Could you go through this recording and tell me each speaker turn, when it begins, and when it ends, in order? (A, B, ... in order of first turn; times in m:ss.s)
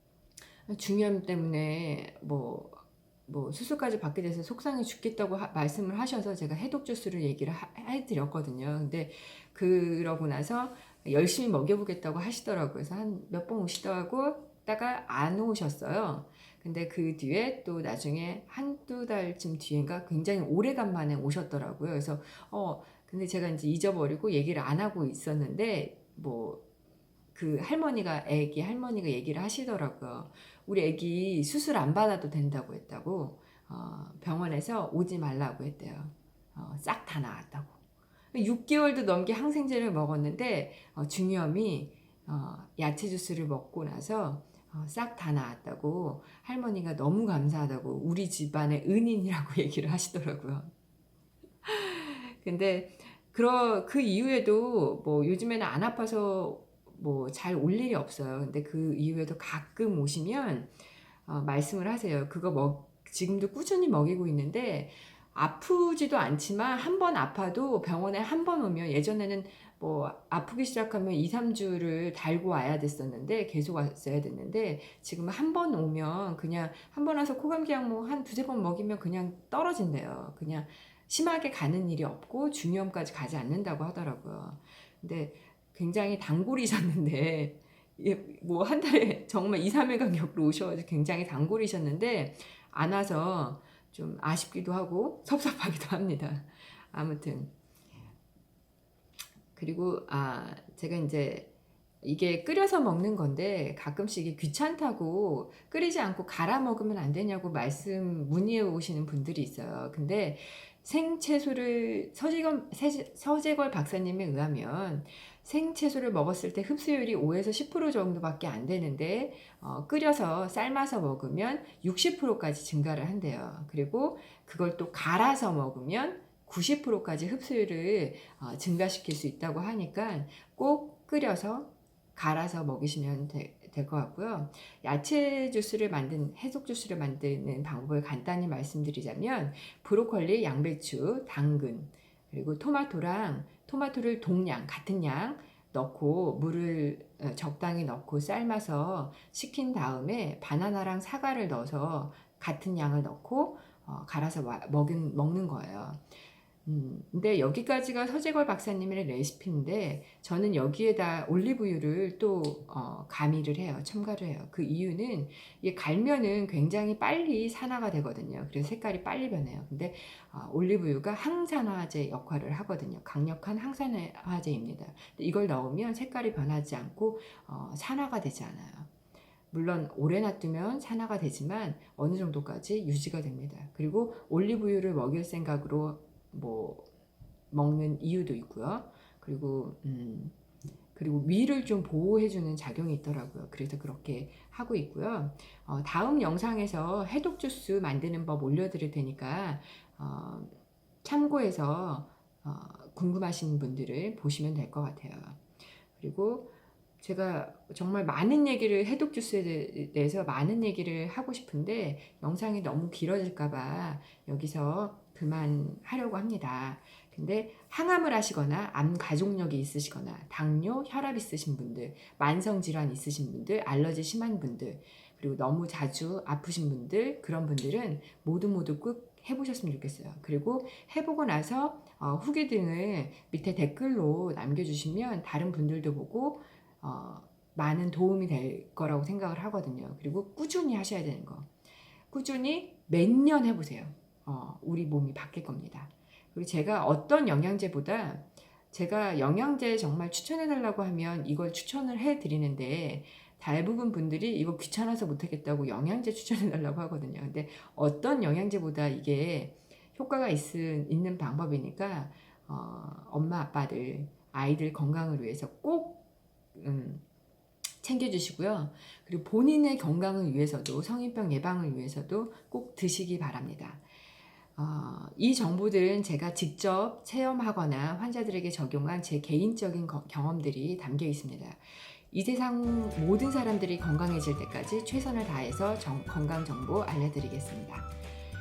0:00.7-0:26.6 A
0:27.3-0:37.8 A
0:38.3-0:50.7 A
0:51.6-1:00.7 A
1:01.2-1:37.5 A
1:39.5-1:41.5 A
1:42.0-2:36.0 A
2:36.6-2:58.9 A
2:59.5-3:06.9 A
3:07.5-3:10.3 A
3:10.9-3:20.5 A
3:21.0-3:25.4 A
3:25.9-4:01.5 A
4:02.1-4:26.0 A
4:26.5-4:27.0 A
4:27.8-4:33.8 A
4:34.6-4:47.9 A